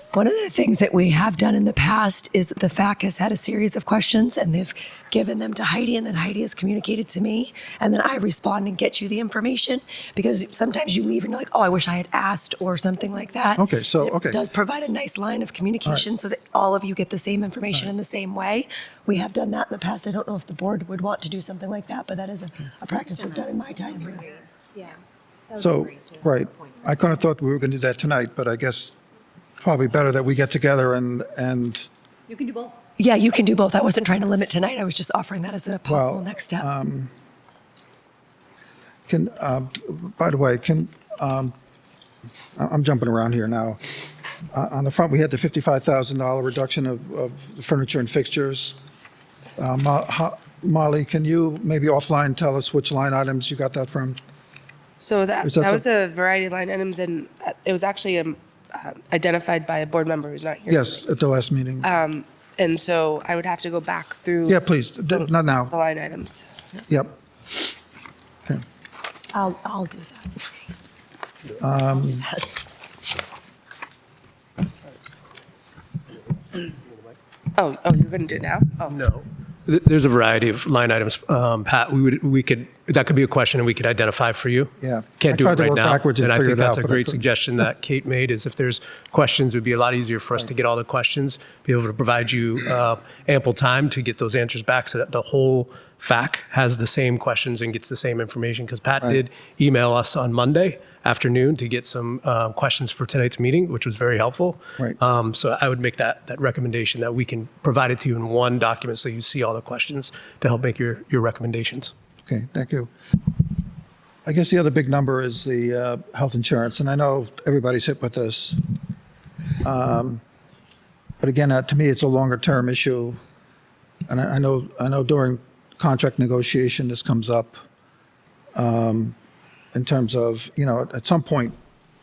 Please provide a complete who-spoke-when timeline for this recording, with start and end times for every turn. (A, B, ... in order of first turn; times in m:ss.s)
0:00.1-0:24.3 A
0:13.6-0:14.4 B
0:24.2-0:25.0 C
0:25.5-0:26.2 C
0:25.6-0:29.0 B
0:29.6-0:31.9 B
0:32.3-0:32.7 C
0:33.0-0:36.7 A
0:35.9-0:37.1 B
0:39.1-0:41.5 B
0:42.6-0:48.8 B
0:49.6-0:54.2 B
0:55.0-1:01.1 D
0:55.4-0:55.8 B
1:00.7-1:01.9 B
1:01.8-1:06.4 D
1:04.5-1:05.7 B
1:06.9-1:07.2 B
1:09.3-1:10.3 A
1:11.6-1:12.3 B
1:17.6-1:18.9 D
1:18.9-1:51.9 E
1:24.8-1:27.2 B
1:52.3-1:52.9 B
1:54.3-1:58.6 B
1:59.6-2:00.2 B
2:01.2-2:03.2 B
2:04.1-2:07.6 B
2:08.6-2:09.2 B
2:09.7-2:11.6 B